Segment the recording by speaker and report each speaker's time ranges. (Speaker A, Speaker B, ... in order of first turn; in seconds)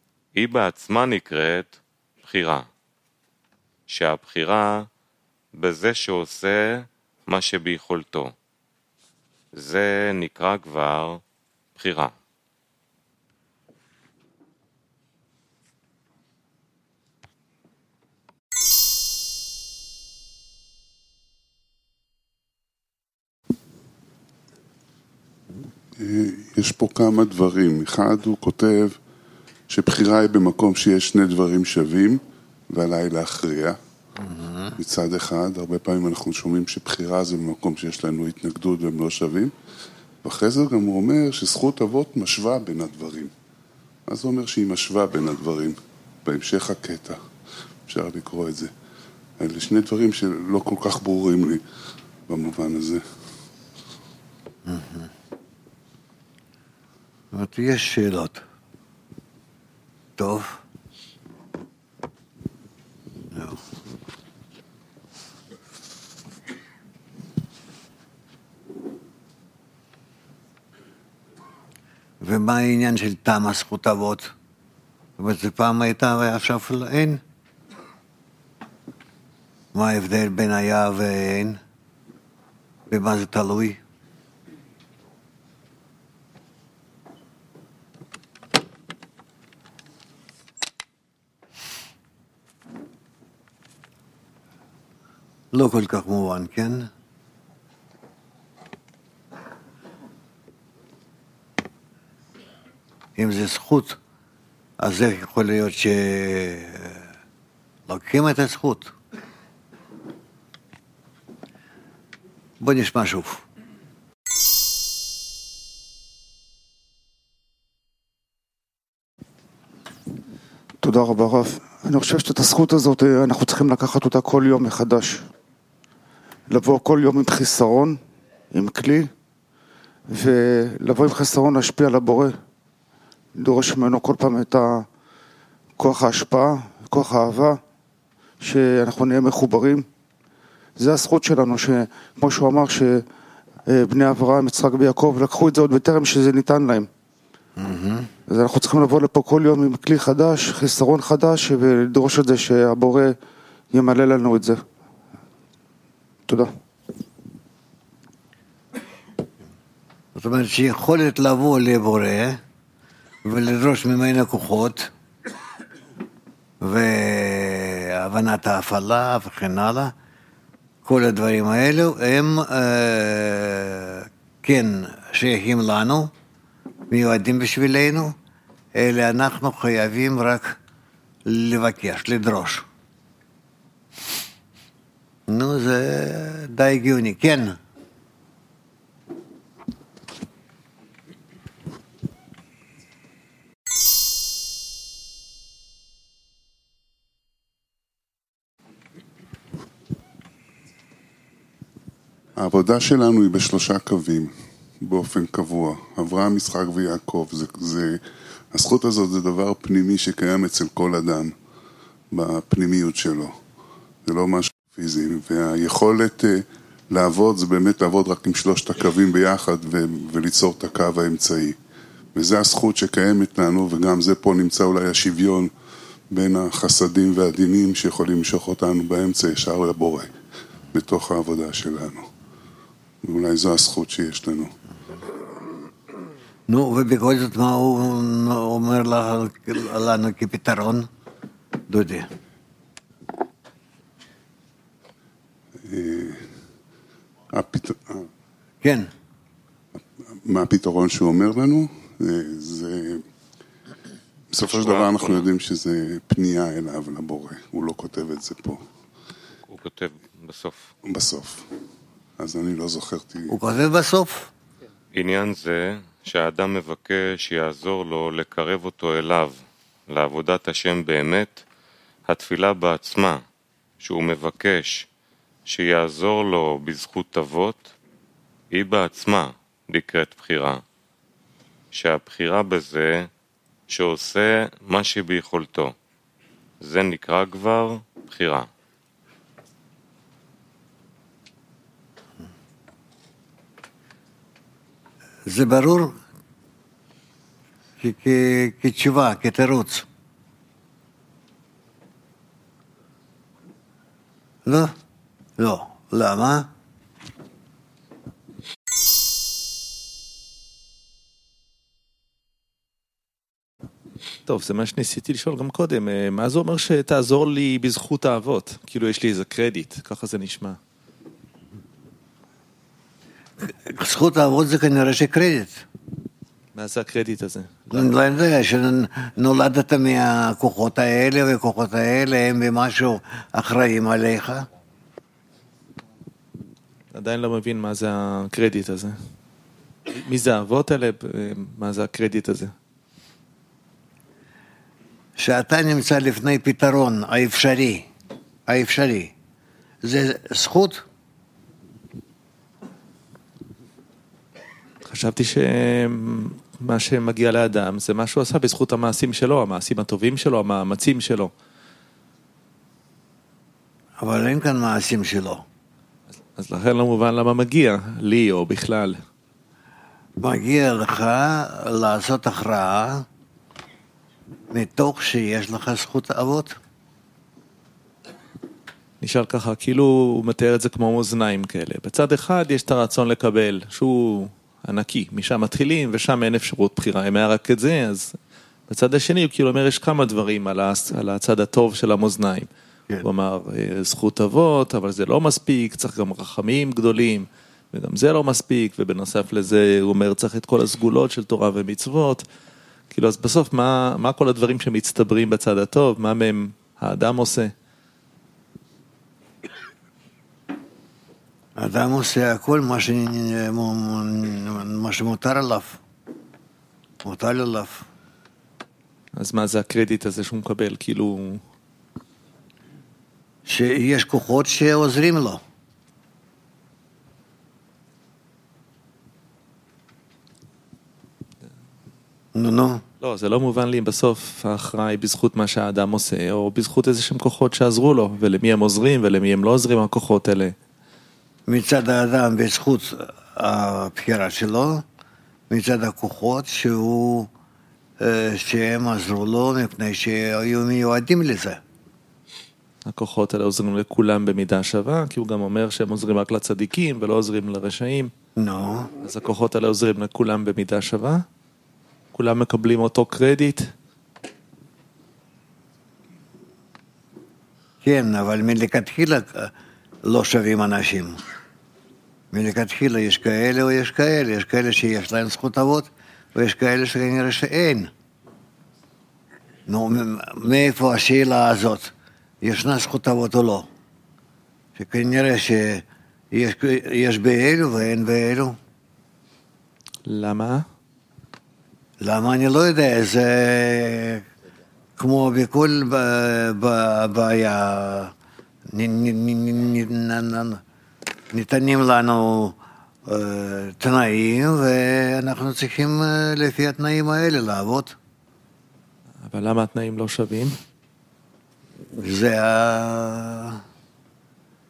Speaker A: 0.3-2.7, 3.9-4.9, 5.5-8.3, 9.5-11.2, 11.8-12.2, 254.5-255.2, 259.5-260.7, 264.9-271.4, 272.1-273.2, 273.8-274.9, 275.5-277.7, 278.5-280.6, 281.7-283.1, 283.7-285.8, 286.6-288.5
Speaker B: 26.0-29.0, 29.7-33.8, 34.8-39.5, 40.2-43.3, 44.1-47.2, 47.9-48.7, 49.4-51.6, 52.3-53.0, 202.4-208.0, 208.5-211.3, 212.1-213.3, 214.1-221.6, 222.2-225.5, 226.1-230.1, 230.7-232.1, 233.0-234.5, 245.7-246.3, 247.3-248.1, 250.3-253.0, 254.3-258.6, 260.9-261.5, 262.2-263.4
Speaker C: 34.2-34.8, 54.6-55.1, 57.3-58.5, 60.2-60.6, 63.3-63.6, 72.2-74.3, 75.2-77.2, 79.7-81.6, 82.9-83.8, 95.5-96.9, 103.2-104.0, 104.8-107.0, 107.9-109.0, 112.6-113.5, 147.6-148.1, 160.2-162.4, 163.2-164.9, 166.6-169.9, 170.8-176.1, 176.9-178.2, 178.7-180.6, 181.2-182.7, 185.3-187.6, 236.5-240.9, 241.7-242.1, 248.6-248.9, 263.3-264.3, 295.3-296.0, 297.8-299.9, 304.4-304.7, 305.4-306.5, 323.4-325.6, 327.7-334.5, 345.2-347.9, 348.5-349.1, 349.8-350.9, 364.0-365.4, 370.2-373.1, 374.5-376.6, 411.6-415.8, 417.0-417.9, 423.5-425.4, 432.4-432.8, 441.5-444.8, 445.5-447.3, 448.0-451.6, 458.4-458.9, 467.8-469.5, 470.0-471.2, 472.3-477.9, 479.7-483.7, 484.8-488.6, 492.0-494.3, 495.0-498.1, 498.7-500.6, 501.3-508.0, 511.9-513.6
Speaker D: 120.8-125.3, 126.5-128.0, 128.5-129.1, 130.1-132.4, 133.4-134.9, 135.8-137.6, 138.4-139.9, 140.8-143.1, 143.7-146.9, 148.3-153.2, 153.7-154.6
Speaker E: 314.3-320.6, 326.6-327.9, 336.9-339.0, 339.9-342.5, 354.9-361.3, 366.4-369.0, 379.0-388.2, 388.7-392.5, 393.0-402.2, 402.9-407.5, 419.2-421.4, 433.0-440.5, 452.9-458.1, 459.0-461.2, 462.1-463.7, 490.1-490.7, 509.2-510.6